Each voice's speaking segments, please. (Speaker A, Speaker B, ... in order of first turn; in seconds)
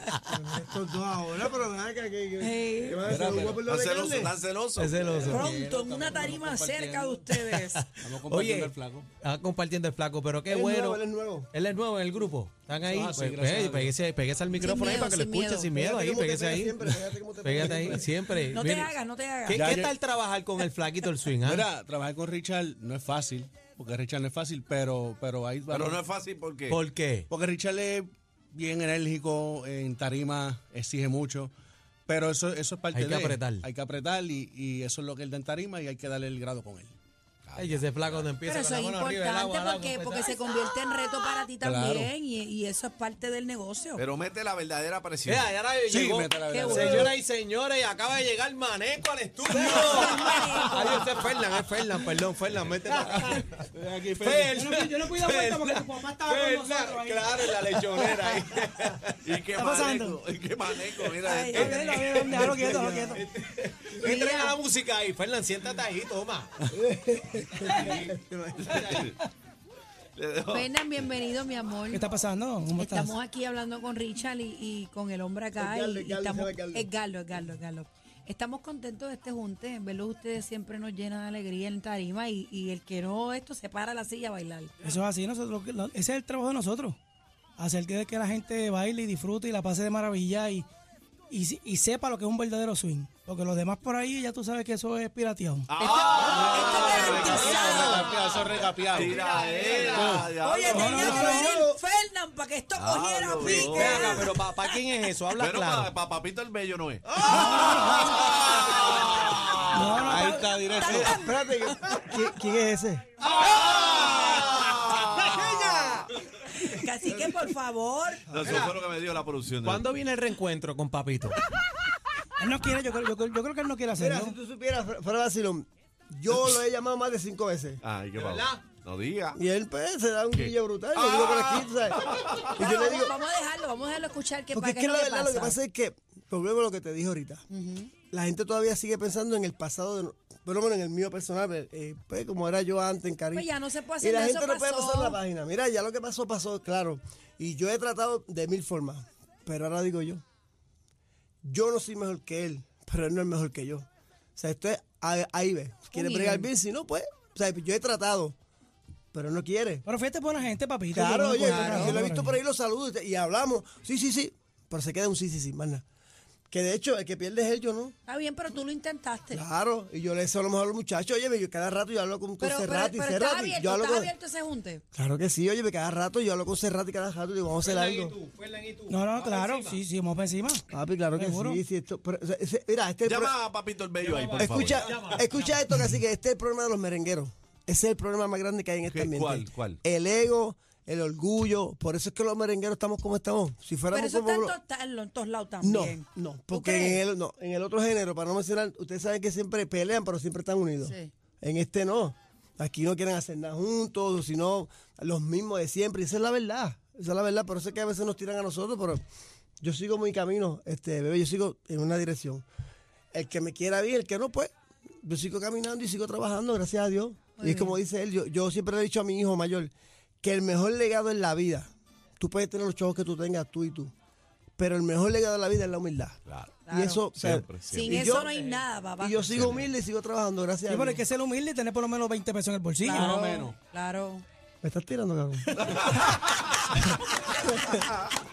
Speaker A: 0.3-4.3, 10.5-11.5, 15.7-18.1, 62.3-63.2, 66.7-68.8, 75.6-76.9, 100.9-101.8, 107.1-109.0, 110.8-113.1, 115.2-116.0, 117.1-117.3, 118.3-118.8, 123.9-127.8, 129.3-133.1, 134.5-137.4, 138.1-150.2, 151.4-158.3, 159.1-159.8, 160.9-165.8, 166.5-167.9, 169.3-174.1, 174.9-178.2, 180.7-183.3, 184.3-194.6, 195.6-209.0, 209.6-212.4, 213.1-214.5, 215.0-223.9, 224.6-228.3, 229.0-231.0, 234.6-235.5, 236.9-237.8
Speaker B: 2.4-3.0, 5.2-7.8, 14.6-15.7, 18.4-19.7, 38.4-44.0, 46.5-47.1, 49.5-51.4, 61.2-62.4, 64.0-64.5, 70.5-72.0, 72.8-84.7, 96.2-98.1, 100.4-104.8, 110.8-112.2, 116.5-118.2, 132.6-135.6, 137.5-137.9, 143.3-145.2, 155.9-156.5, 161.5-161.9, 168.1-169.4, 172.4-174.8, 193.9-197.0, 200.8-201.1, 217.4-217.8, 226.7-227.0, 227.7-229.4, 232.8-234.2
Speaker C: 3.0-3.6, 4.9-7.3, 8.0-9.1, 12.8-14.0, 19.5-20.0, 21.4-26.0, 27.3-31.5, 32.1-36.9, 41.6-42.1, 45.9-47.2, 53.7-54.6, 96.2-100.3, 110.0-111.2, 232.9-233.6
Speaker D: 3.6-5.0, 25.7-26.8, 37.5-38.3, 44.0-45.5, 59.2-62.2, 68.6-69.2, 70.2-70.7, 95.7-97.7, 98.9-101.4, 102.8-104.3, 105.4-110.0, 113.3-116.0, 118.3-119.8, 127.8-129.4, 130.3-132.5, 183.0-185.2, 188.8-189.8, 226.2-226.6, 227.1-228.0, 229.3-229.7, 235.5-237.0, 237.7-238.1
Speaker E: 4.8-5.5, 7.3-11.0, 11.5-18.9, 19.5-21.7, 26.7-27.3, 32.9-33.6, 37.5-40.4, 45.2-53.7, 54.2-59.3, 61.5-62.6, 63.1-66.5, 67.6-68.1, 68.7-69.1, 95.8-98.2, 99.2-100.1, 103.5-105.9, 108.2-108.8, 113.5-114.6, 118.4-118.7, 119.6-121.4, 128.1-128.7, 177.6-179.8, 184.0-185.7, 228.0-228.7
Speaker F: 54.5-57.3, 59.5-60.2, 61.6-63.2, 71.9-73.1, 84.8-87.0, 87.6-90.7, 91.3-95.7, 100.7-101.6, 107.2-108.2, 109.7-110.5, 122.4-124.3, 159.8-162.3, 178.9-180.6, 181.2-181.6, 230.7-233.1